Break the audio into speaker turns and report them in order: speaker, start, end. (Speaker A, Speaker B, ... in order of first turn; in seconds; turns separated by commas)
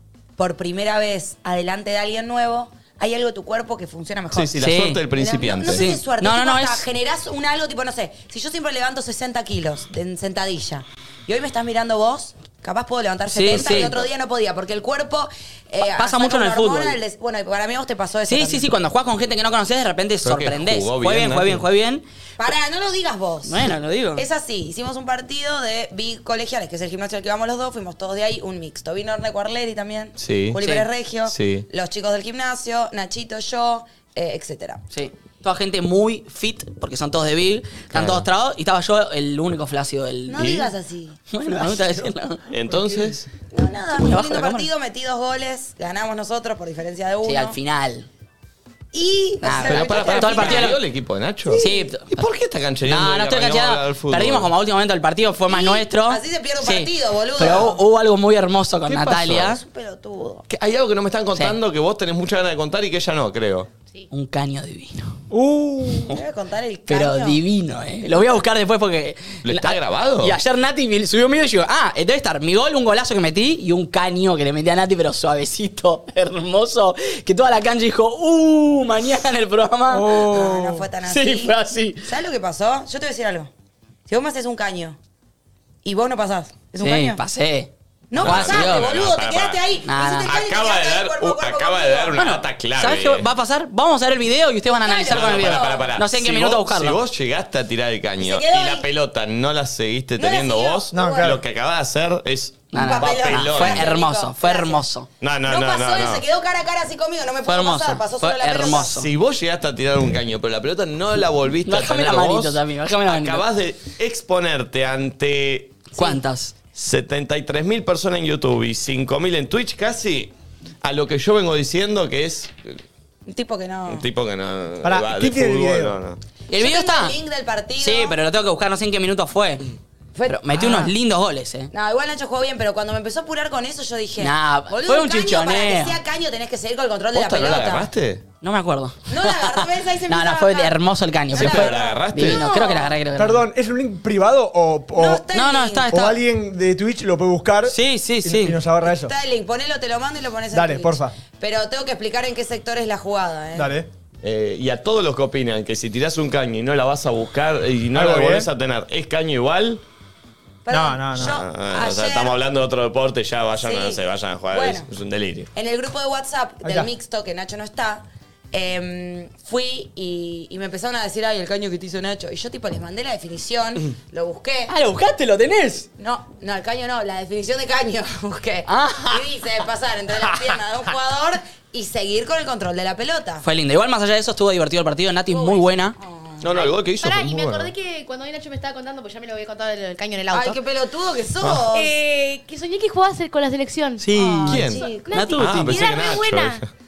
Speaker A: 0.4-4.6, Speaker B: 4.3-6.0, Speaker C: 4.6-5.0, Speaker A: 5.2-18.6, Speaker C: 5.5-6.8, Speaker C: 13.3-14.0, Speaker B: 13.5-14.1, Speaker C: 15.8-17.0, Speaker C: 18.3-22.0, Speaker B: 20.2-21.6, Speaker A: 22.4-34.8, Speaker C: 23.4-24.2, Speaker B: 30.2-30.6, Speaker C: 30.6-30.9, Speaker B: 31.2-31.7, Speaker C: 34.9-40.6, Speaker B: 37.9-38.3, Speaker A: 40.3-41.2, Speaker B: 40.4-40.7, Speaker C: 41.3-42.4, Speaker B: 42.5-43.3, Speaker A: 43.5-47.5, Speaker C: 43.9-44.7, Speaker C: 47.2-48.1, Speaker A: 48.9-50.8, Speaker C: 49.4-50.8, Speaker B: 49.6-54.5, Speaker C: 51.5-52.2, Speaker C: 52.8-59.6, Speaker A: 55.5-57.8, Speaker B: 58.9-59.5, Speaker A: 59.3-60.5, Speaker B: 60.5-63.7, Speaker C: 64.1-65.2, Speaker D: 65.3-66.2, Speaker A: 66.1-67.4, Speaker C: 66.9-80.3, Speaker B: 69.4-70.4, Speaker D: 79.9-80.9, Speaker A: 80.2-83.5, Speaker C: 81.0-82.1, Speaker A: 84.1-85.0, Speaker A: 85.8-87.2, Speaker C: 86.8-88.9, Speaker A: 88.1-92.2, Speaker B: 88.2-89.6, Speaker C: 89.8-90.4, Speaker B: 90.2-93.3, Speaker C: 92.2-97.0, Speaker A: 94.8-95.9, Speaker B: 95.0-103.9, Speaker A: 98.2-98.9, Speaker A: 100.2-101.4, Speaker D: 100.9-101.4, Speaker C: 102.7-105.1, Speaker A: 102.7-104.8, Speaker B: 105.2-106.2, Speaker A: 105.5-109.0, Speaker C: 107.5-109.1, Speaker B: 108.8-115.8, Speaker C: 111.7-113.4, Speaker C: 116.0-116.5, Speaker B: 116.7-122.8, Speaker A: 123.2-124.0, Speaker B: 123.9-126.2, Speaker D: 124.8-126.0, Speaker C: 126.5-127.2, Speaker A: 126.5-128.2, Speaker C: 127.8-129.7, Speaker A: 130.2-130.9, Speaker C: 130.3-131.7, Speaker A: 131.7-137.9, Speaker C: 134.2-136.0, Speaker B: 137.1-138.2, Speaker C: 138.4-143.5, Speaker A: 139.1-140.8, Speaker A: 141.3-143.0, Speaker B: 141.3-142.5, Speaker D: 143.2-145.2, Speaker A: 144.9-146.0, Speaker C: 145.3-146.2, Speaker D: 145.9-149.1, Speaker C: 147.7-148.6, Speaker A: 148.8-153.8, Speaker D: 150.5-151.1, Speaker D: 153.5-153.9, Speaker B: 154.2-159.8, Speaker D: 157.9-158.5, Speaker A: 160.7-162.3, Speaker D: 160.7-161.4, Speaker B: 161.2-165.5, Speaker A: 163.6-164.9, Speaker A: 165.5-174.7, Speaker D: 166.6-166.9, Speaker C: 174.7-175.9, Speaker A: 176.0-183.4, Speaker C: 178.7-179.2, Speaker C: 183.4-186.0, Speaker A: 185.3-186.5, Speaker B: 186.4-187.7, Speaker E: 186.5-190.6, Speaker A: 190.3-192.0, Speaker B: 191.4-191.7, Speaker E: 191.7-196.6, Speaker C: 194.0-195.8, Speaker A: 194.4-196.0, Speaker B: 194.5-196.7